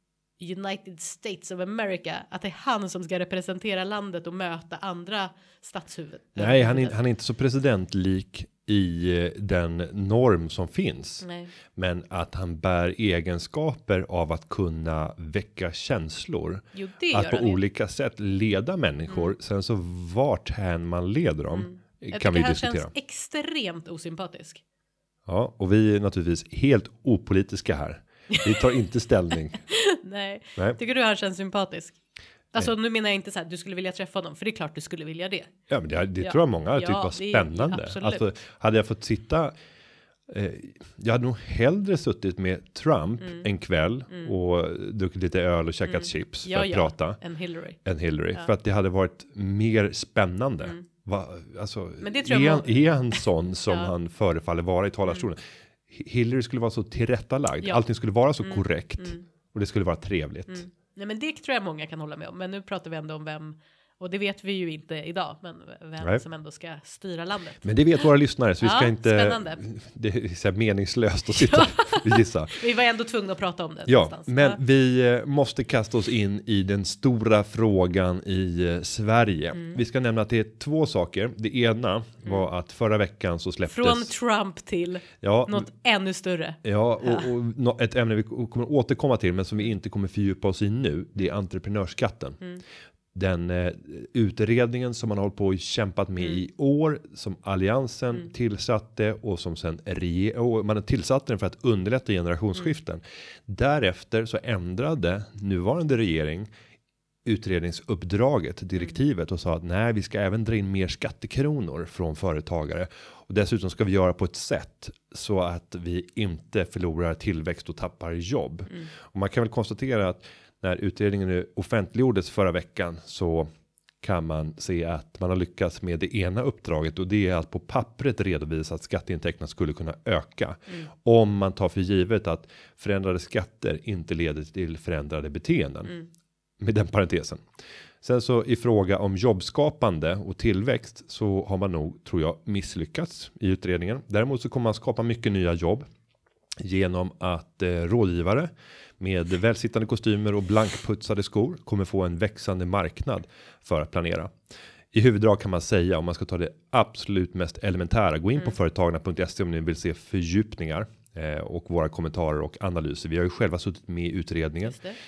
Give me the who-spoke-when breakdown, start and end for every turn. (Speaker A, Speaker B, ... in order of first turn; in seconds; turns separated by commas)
Speaker A: 0.4-7.0, Speaker B: 6.3-22.9, Speaker A: 11.2-11.5, Speaker A: 16.7-17.6, Speaker A: 21.5-24.6, Speaker B: 25.2-29.6, Speaker A: 28.3-28.6, Speaker A: 29.7-32.0, Speaker A: 32.5-35.5, Speaker B: 35.7-39.5, Speaker A: 36.2-38.2, Speaker B: 40.3-47.2, Speaker A: 43.2-43.4, Speaker A: 45.9-47.8, Speaker B: 47.8-60.6, Speaker A: 52.0-53.9, Speaker A: 58.4-59.2, Speaker A: 60.5-68.1, Speaker B: 67.6-72.6, Speaker A: 68.6-69.6, Speaker A: 71.4-74.6, Speaker B: 73.9-84.1, Speaker A: 83.7-87.3, Speaker B: 85.2-85.7, Speaker B: 86.6-92.4, Speaker B: 93.1-106.5, Speaker B: 107.2-123.5, Speaker B: 124.0-135.9, Speaker B: 136.6-137.4, Speaker B: 138.0-145.9, Speaker B: 146.6-154.3, Speaker B: 154.9-164.8, Speaker A: 164.6-165.0